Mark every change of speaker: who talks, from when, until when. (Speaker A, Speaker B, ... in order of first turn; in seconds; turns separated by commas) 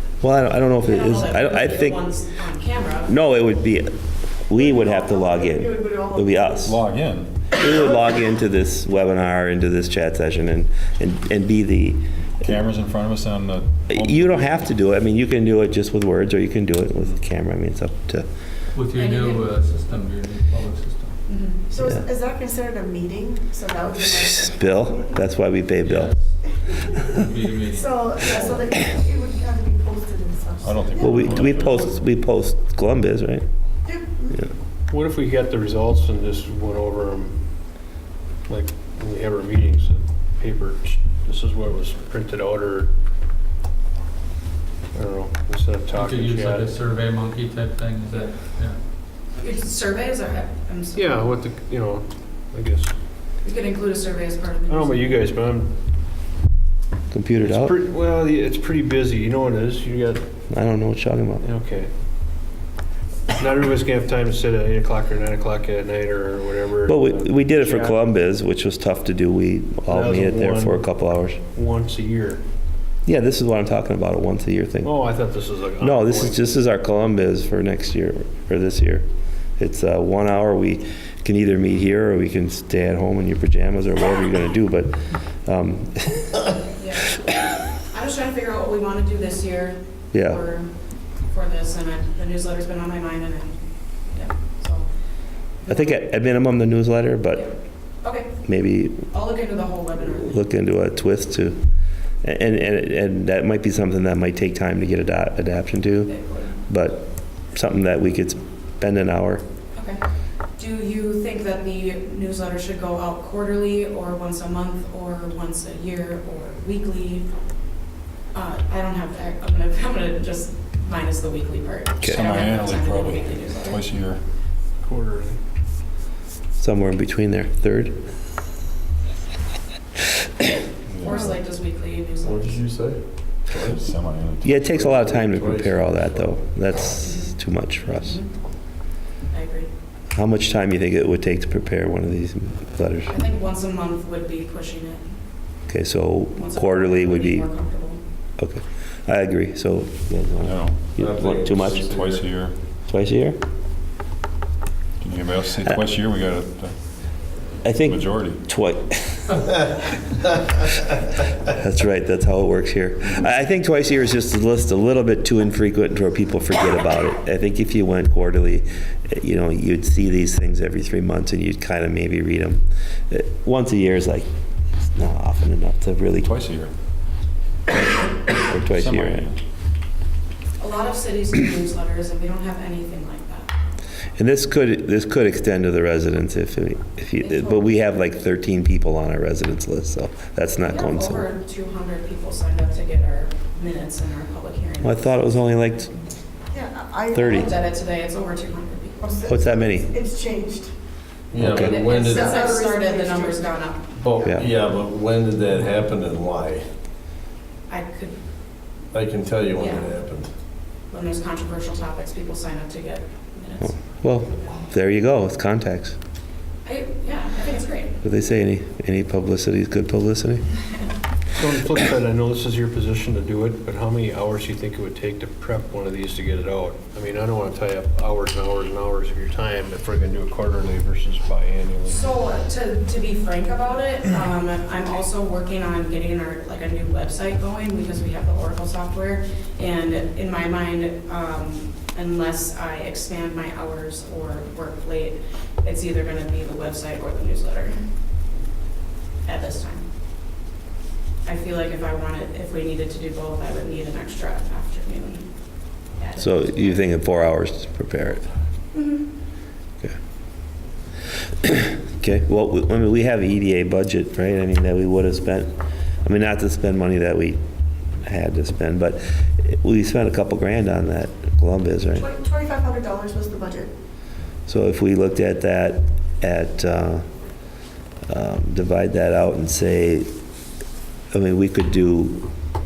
Speaker A: 0.2-2.1, Speaker B: 0.8-3.1, Speaker A: 3.1-6.8, Speaker C: 4.6-6.7, Speaker D: 6.6-7.3, Speaker A: 7.5-12.0, Speaker D: 12.4-14.6, Speaker A: 13.9-18.3, Speaker E: 18.7-21.1, Speaker B: 18.9-19.5, Speaker B: 21.3-21.6, Speaker C: 21.7-25.1, Speaker A: 24.0-26.1, Speaker E: 25.8-28.6, Speaker C: 27.7-31.3, Speaker D: 30.6-31.9, Speaker A: 31.0-33.5, Speaker C: 33.9-34.4, Speaker F: 34.9-37.4, Speaker F: 38.5-42.9, Speaker F: 44.9-46.7, Speaker E: 45.9-48.8, Speaker B: 49.3-51.2, Speaker F: 50.9-52.9, Speaker B: 53.4-55.2, Speaker F: 54.7-55.7, Speaker A: 57.1-57.7, Speaker F: 57.3-60.3, Speaker A: 60.5-61.4, Speaker F: 61.4-61.9, Speaker F: 63.3-68.0, Speaker A: 66.8-71.4, Speaker F: 69.9-70.9, Speaker F: 71.5-72.4, Speaker A: 73.0-75.0, Speaker F: 74.8-76.5, Speaker A: 75.8-79.0, Speaker A: 79.6-86.5, Speaker B: 86.8-90.7, Speaker A: 90.1-90.4, Speaker B: 91.2-94.9, Speaker B: 95.6-96.0, Speaker A: 95.7-97.5, Speaker B: 97.3-98.3, Speaker A: 98.4-99.1, Speaker B: 99.1-100.4, Speaker A: 100.1-101.6, Speaker A: 102.2-109.4, Speaker B: 106.1-106.6, Speaker B: 109.7-110.0, Speaker B: 110.6-117.3, Speaker B: 118.3-123.8, Speaker A: 122.0-122.3, Speaker D: 122.0-124.2, Speaker F: 124.8-125.4, Speaker A: 126.6-128.0, Speaker D: 130.9-131.2, Speaker B: 131.0-132.6, Speaker G: 132.2-133.8, Speaker D: 133.6-134.6, Speaker A: 134.4-138.2, Speaker G: 134.6-136.4, Speaker B: 137.0-137.3, Speaker B: 138.0-138.3, Speaker B: 139.3-139.7, Speaker A: 140.1-143.2, Speaker B: 143.1-145.2, Speaker A: 145.7-147.5, Speaker B: 146.3-148.0, Speaker A: 148.4-151.8, Speaker D: 150.4-152.6, Speaker G: 151.0-152.3, Speaker A: 152.9-153.4, Speaker D: 155.0-156.7, Speaker A: 157.6-159.6, Speaker D: 157.8-158.4, Speaker A: 161.5-174.3, Speaker A: 174.8-176.3, Speaker D: 176.2-176.7, Speaker A: 177.7-179.3, Speaker D: 178.7-179.3, Speaker B: 180.6-183.5, Speaker A: 184.2-191.2, Speaker B: 187.2-187.7, Speaker B: 190.6-195.2, Speaker A: 194.8-196.0, Speaker C: 196.5-197.5, Speaker A: 197.1-197.5, Speaker B: 197.2-199.2, Speaker C: 199.0-200.7, Speaker A: 199.3-199.9, Speaker G: 201.3-202.4, Speaker A: 201.4-201.7, Speaker B: 201.5-203.9, Speaker C: 201.8-203.5, Speaker G: 203.9-206.6, Speaker C: 204.1-204.4, Speaker B: 207.7-208.2, Speaker G: 208.9-210.3, Speaker B: 209.6-209.9, Speaker B: 210.9-213.8, Speaker A: 213.8-216.0, Speaker B: 216.6-218.0, Speaker A: 218.0-220.4, Speaker F: 221.3-232.0, Speaker B: 231.9-247.8, Speaker B: 249.2-249.8, Speaker B: 251.2-255.3, Speaker B: 256.0-256.8, Speaker A: 256.2-258.3, Speaker A: 261.4-265.5, Speaker A: 266.0-267.4, Speaker A: 268.0-272.1, Speaker C: 271.9-273.7, Speaker A: 274.5-277.0, Speaker A: 278.1-280.1, Speaker A: 281.1-282.3